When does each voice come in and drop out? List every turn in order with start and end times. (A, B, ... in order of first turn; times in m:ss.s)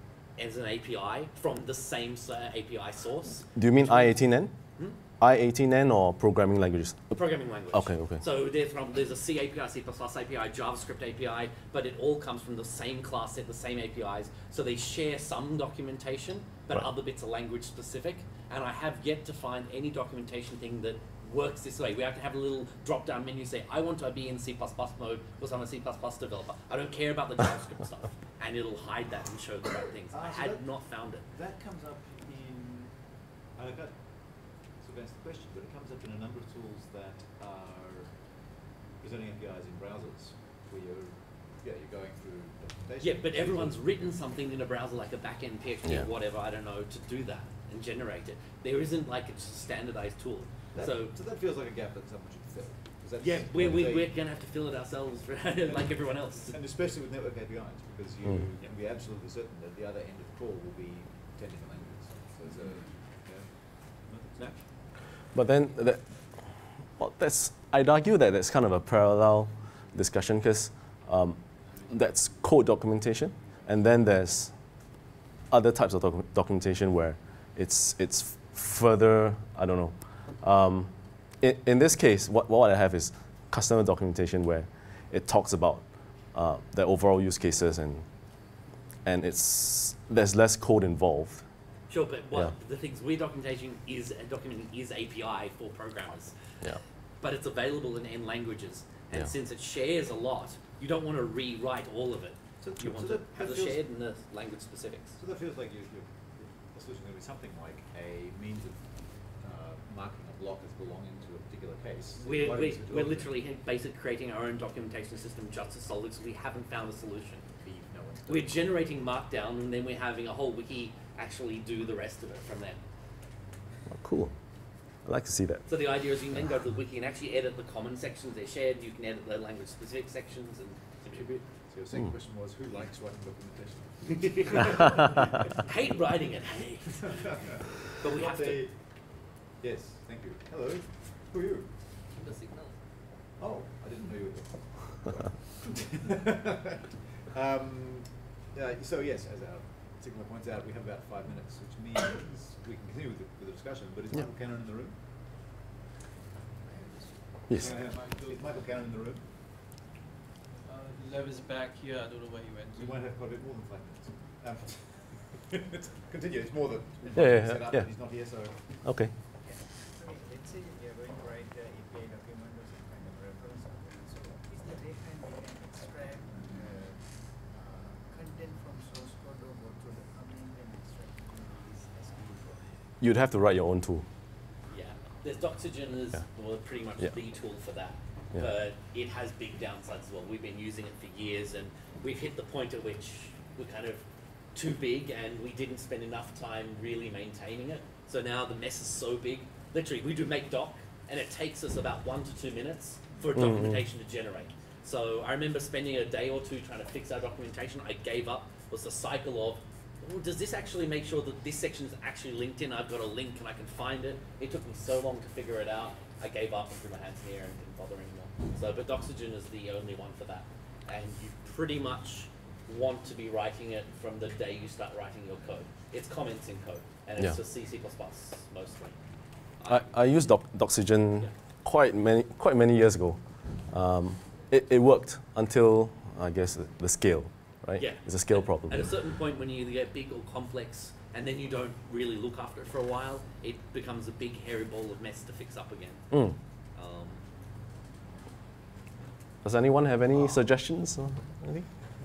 0:00.4-0:04.2 A
0:03.6-0:04.5 B
0:05.2-0:07.2 B
0:07.1-0:31.3 A
0:07.7-0:08.2 B
0:30.1-0:44.1 C
0:43.0-0:51.1 A
0:50.7-0:54.1 C
0:53.2-0:56.6 A
0:55.6-1:04.5 C
1:05.3-1:14.5 B
1:15.5-1:28.1 B
1:29.0-1:31.4 B
1:31.9-1:36.4 A
1:37.2-1:45.2 A
1:42.6-1:43.8 C
1:45.2-1:53.3 C
1:52.2-1:57.5 A
1:57.6-1:58.7 C
1:58.3-2:02.8 A
2:03.9-2:04.4 B
2:05.0-2:05.7 B
2:05.7-2:11.4 A
2:11.3-2:15.6 C
2:14.5-2:15.0 A
2:15.6-2:17.4 A
2:17.0-2:18.8 C
2:17.9-2:18.6 A
2:19.6-2:21.7 C
2:22.1-2:22.8 A
2:23.4-2:35.0 C
2:36.6-2:37.2 D
2:37.5-2:39.2 C
2:37.6-2:38.3 E
2:40.7-2:43.0 E
2:42.8-2:48.7 C
2:47.2-2:47.9 B
2:48.8-2:49.1 B
2:49.4-3:02.9 D
3:03.0-3:04.1 B
3:04.7-3:49.0 A
3:23.4-3:23.8 B
3:49.6-3:58.9 B
3:57.8-4:06.1 A
4:06.1-4:06.4 B
4:06.8-4:07.2 A
4:09.4-4:11.7 B